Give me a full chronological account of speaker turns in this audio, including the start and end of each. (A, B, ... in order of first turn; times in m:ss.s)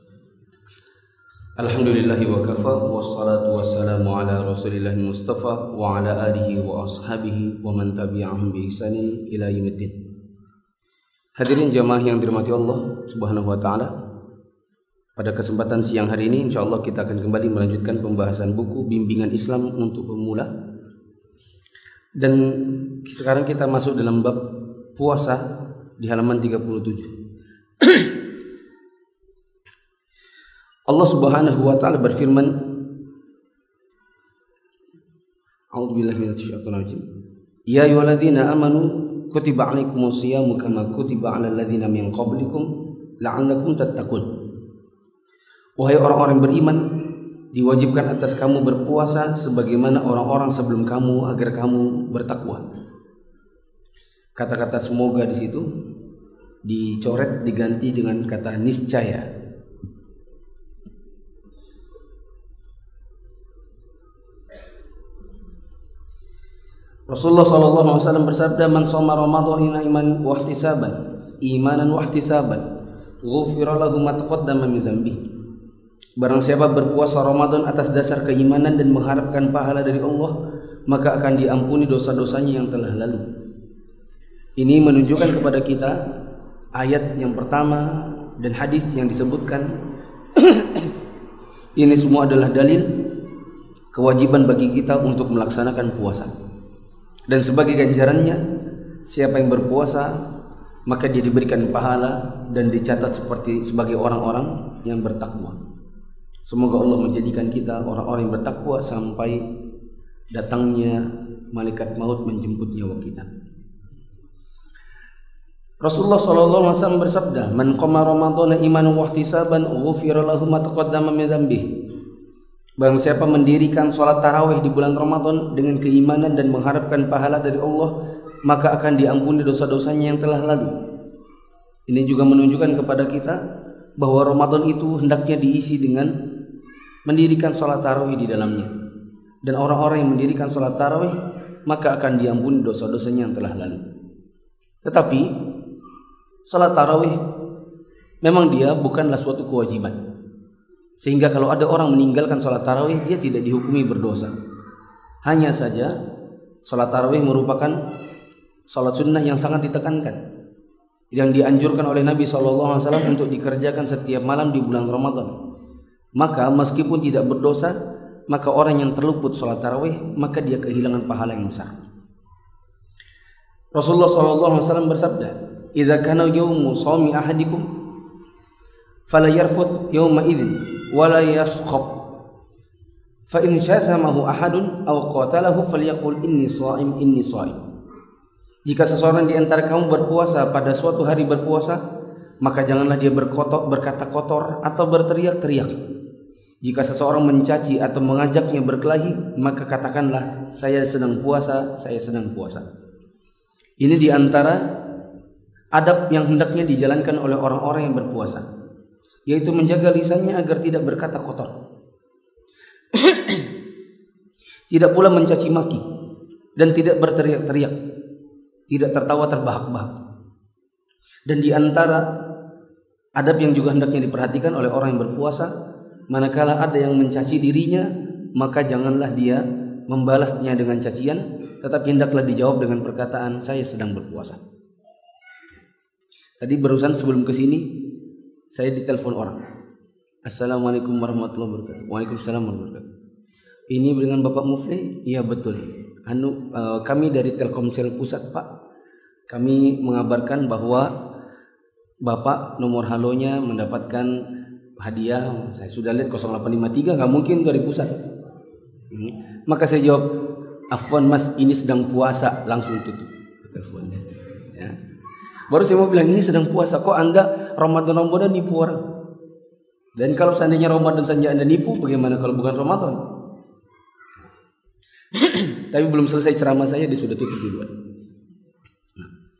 0:01.6-0:10.0 A
0:11.4-0:13.9 A
0:15.2-0:20.5 A
0:22.2-0:24.4 A
0:25.0-0:25.4 A
0:26.0-0:27.1 A
0:27.8-0:28.1 A
0:30.9-0:32.5 A
0:35.7-0:37.0 A
0:37.7-0:42.7 A
0:43.2-0:44.2 A
0:45.8-0:46.8 A
0:47.5-0:52.6 A
0:54.4-0:55.6 A
0:56.6-0:59.2 A
1:07.1-1:12.6 A
1:13.2-1:15.2 A
1:16.2-1:20.3 A
1:20.9-1:23.2 A
1:24.6-1:26.0 A
1:26.8-1:29.7 A
1:30.3-1:30.9 A
1:31.8-1:32.9 A
1:33.9-1:36.3 A
1:37.3-1:38.4 A
1:39.0-1:40.1 A
1:40.9-1:45.6 A
1:46.4-1:49.4 A
1:50.3-1:51.0 A
1:51.5-1:53.3 A
1:55.8-2:01.7 A
2:02.8-2:07.9 A
2:08.4-2:10.7 A
2:11.9-2:13.4 A
2:14.0-2:16.1 A
2:17.1-2:18.7 A
2:19.4-2:23.8 A
2:24.8-2:25.3 A
2:26.5-2:27.2 A
2:28.2-2:30.0 A
2:31.0-2:34.3 A
2:35.2-2:35.9 A
2:36.6-2:37.8 A
2:38.7-2:40.2 A
2:41.1-2:45.3 A
2:46.2-2:47.7 A
2:48.3-2:51.7 A
2:53.7-2:57.6 A
2:59.1-3:01.9 A
3:03.3-3:07.6 A
3:08.7-3:11.8 A
3:12.4-3:15.8 A
3:16.6-3:22.6 A
3:23.8-3:24.6 A
3:25.7-3:28.4 A
3:29.3-3:31.5 A
3:32.9-3:33.5 A
3:34.7-3:35.8 A
3:36.6-3:37.8 A
3:38.7-3:39.9 A
3:41.3-3:42.0 A
3:43.2-3:45.5 A
3:46.1-3:54.4 A
3:56.4-3:57.7 A
3:58.5-3:59.4 A
4:00.2-4:02.8 A
4:03.7-4:08.5 A
4:09.3-4:10.9 A
4:12.0-4:14.2 A
4:14.8-4:17.9 A
4:18.9-4:20.1 A
4:20.7-4:24.8 A
4:25.5-4:28.8 A
4:30.0-4:33.0 A
4:35.1-4:37.7 A